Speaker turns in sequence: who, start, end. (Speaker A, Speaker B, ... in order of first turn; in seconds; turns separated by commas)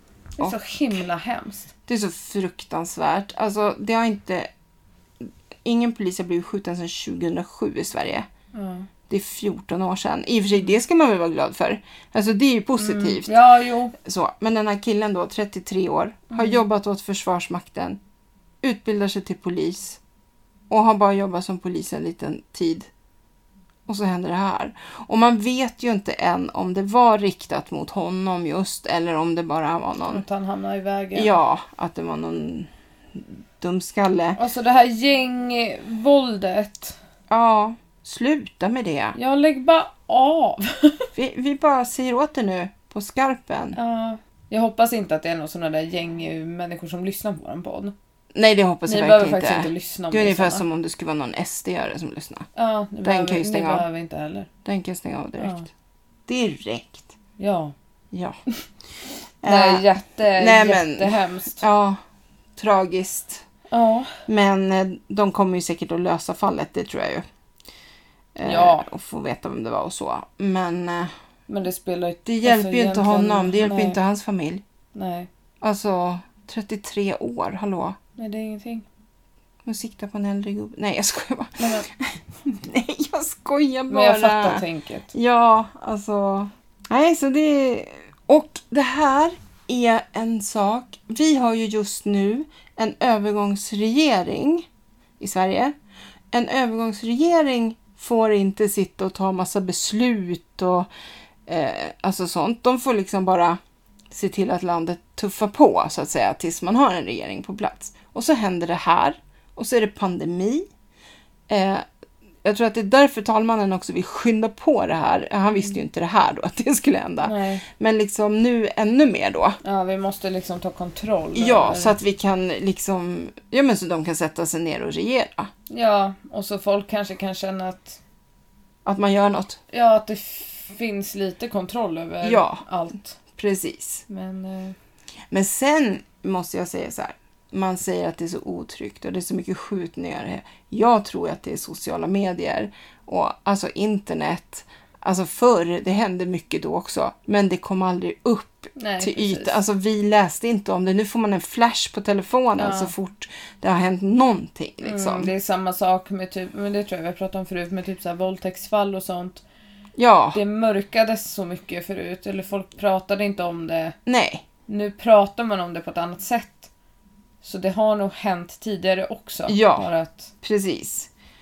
Speaker A: 0.4-1.7, Speaker B: 1.9-4.5, Speaker B: 5.2-8.3, Speaker A: 8.5-8.9, Speaker B: 9.1-13.3, Speaker A: 12.8-13.9, Speaker B: 14.0-18.0, Speaker A: 16.3-16.6, Speaker B: 18.6-20.0, Speaker B: 20.7-22.9, Speaker B: 23.9-30.2, Speaker A: 30.1-31.3, Speaker B: 31.1-34.4, Speaker A: 34.4-37.0, Speaker B: 37.3-39.1, Speaker A: 39.1-41.1, Speaker B: 41.1-43.8, Speaker A: 43.7-47.9, Speaker B: 48.3-52.5, Speaker A: 48.9-50.6, Speaker A: 52.5-54.5, Speaker B: 53.0-53.9, Speaker B: 54.6-55.6, Speaker A: 55.4-55.7, Speaker B: 56.3-57.1, Speaker A: 57.4-57.7, Speaker B: 58.1-58.4, Speaker B: 59.4-62.0, Speaker A: 59.4-61.6, Speaker B: 62.6-63.4, Speaker A: 63.7-64.2, Speaker B: 64.3-67.2, Speaker B: 68.3-71.1, Speaker A: 68.4-68.9, Speaker A: 71.5-74.0, Speaker B: 72.2-74.6, Speaker A: 74.9-75.3, Speaker B: 75.6-78.0, Speaker A: 78.2-78.8, Speaker B: 79.6-94.7, Speaker A: 81.6-81.8, Speaker A: 83.9-85.1, Speaker B: 95.2-95.7, Speaker B: 96.3-100.9, Speaker B: 101.5-103.6, Speaker B: 104.1-110.7, Speaker B: 111.5-111.8, Speaker B: 112.4-119.6, Speaker A: 117.2-117.6, Speaker A: 119.6-122.0, Speaker B: 121.3-125.5, Speaker A: 125.7-128.0, Speaker B: 128.8-129.6, Speaker A: 129.7-133.2, Speaker B: 132.2-132.6, Speaker B: 133.3-134.0, Speaker A: 134.1-134.7, Speaker B: 135.3-155.3, Speaker A: 148.8-149.6, Speaker A: 152.6-152.9, Speaker A: 154.8-159.4, Speaker B: 160.0-160.4, Speaker A: 160.3-163.9, Speaker B: 164.1-164.4, Speaker A: 164.7-166.7, Speaker A: 167.4-170.3, Speaker B: 169.5-169.9, Speaker B: 170.4-171.1